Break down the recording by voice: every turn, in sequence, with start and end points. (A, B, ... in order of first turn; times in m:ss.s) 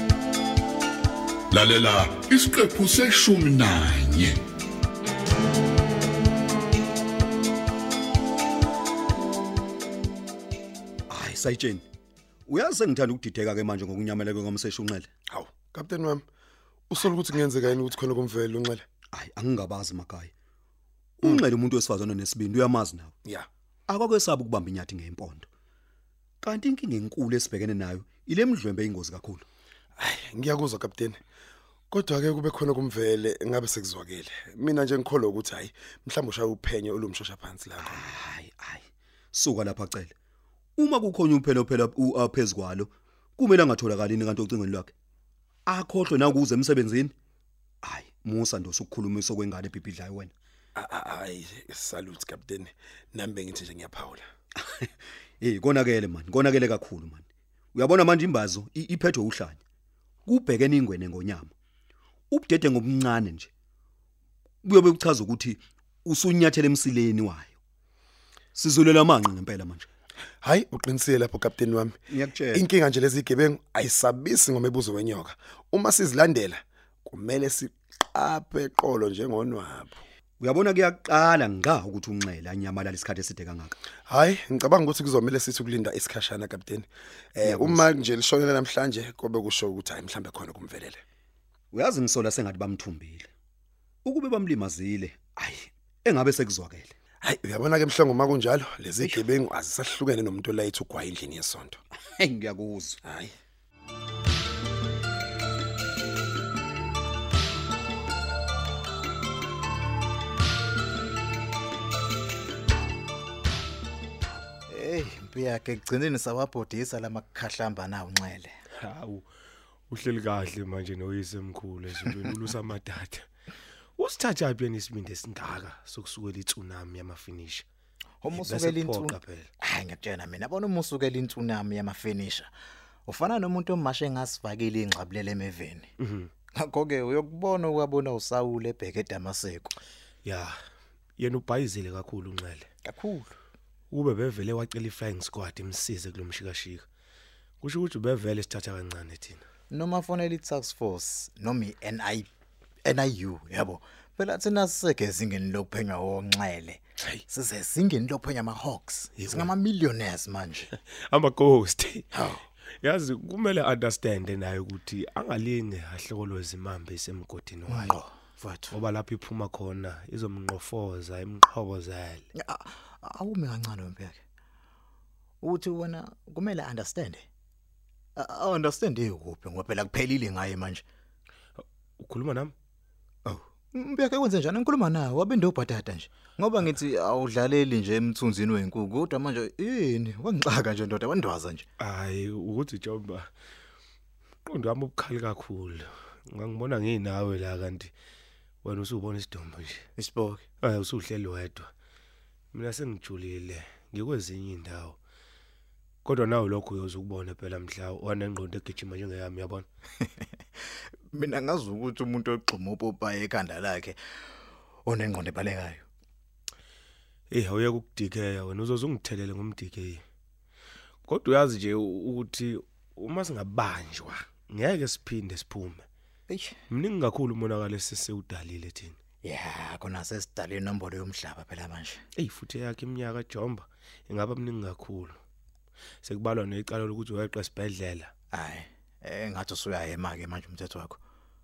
0:01.5-0:04.4 A
0:11.1-0:11.9 B
0:12.5-0:15.1 B
0:15.3-0:16.2 C
0:16.9-0:18.8 C
0:19.1-0:20.3 B
0:21.2-0:23.1 B
0:23.9-0:25.5 B
0:26.4-0:29.4 B
0:30.0-0:31.2 C
0:31.9-0:38.1 C
0:37.8-0:40.1 B
0:40.8-0:44.9 B
0:45.7-0:47.1 B
0:47.8-0:50.3 B
0:50.8-0:54.3 C
0:54.6-0:59.6 B
1:00.2-1:01.5 B
1:02.3-1:03.5 B
1:04.6-1:07.6 B
1:08.6-1:09.9 B
1:10.4-1:12.0 C
1:12.1-1:12.7 B
1:12.5-1:20.1 C
1:20.4-1:23.8 B
1:24.1-1:31.0 C
1:27.4-1:27.9 B
1:31.7-1:33.3 B
1:34.0-1:37.0 B
1:37.2-1:41.8 C
1:42.1-1:43.0 B
1:43.0-1:43.3 C
1:54.7-1:58.5 D
1:58.8-1:59.3 E
1:59.9-2:03.3 E
2:04.0-2:07.7 E
2:08.2-2:12.5 D
2:08.3-2:09.5 E
2:13.1-2:15.9 D
2:16.0-2:16.3 E
2:16.6-2:19.8 D
2:20.2-2:20.6 E
2:21.2-2:22.7 E
2:22.8-2:23.3 D
2:23.9-2:26.9 E
2:27.6-2:29.4 E
2:29.7-2:32.3 D
2:32.8-2:40.7 D
2:39.2-2:39.5 E
2:40.7-2:42.1 E
2:42.1-2:42.4 D
2:42.8-2:48.0 E
2:47.7-2:48.7 D
2:48.7-2:52.3 E
2:52.4-2:54.2 D
2:55.4-2:57.2 D
2:58.2-3:00.8 D
3:01.6-3:02.5 E
3:03.2-3:11.7 D
3:11.8-3:13.3 E
3:14.4-3:17.9 E
3:18.6-3:19.9 E
3:20.0-3:20.4 D
3:20.6-3:21.7 E
3:22.5-3:25.0 E
3:26.0-3:29.7 E
3:31.1-3:34.0 D
3:34.8-3:35.8 D
3:37.3-3:40.0 E
3:41.1-3:45.8 E
3:46.3-3:46.6 D
3:46.7-3:49.0 E
3:49.2-3:52.0 D
3:52.2-3:55.2 E
3:56.0-3:58.1 E
3:58.3-4:01.0 D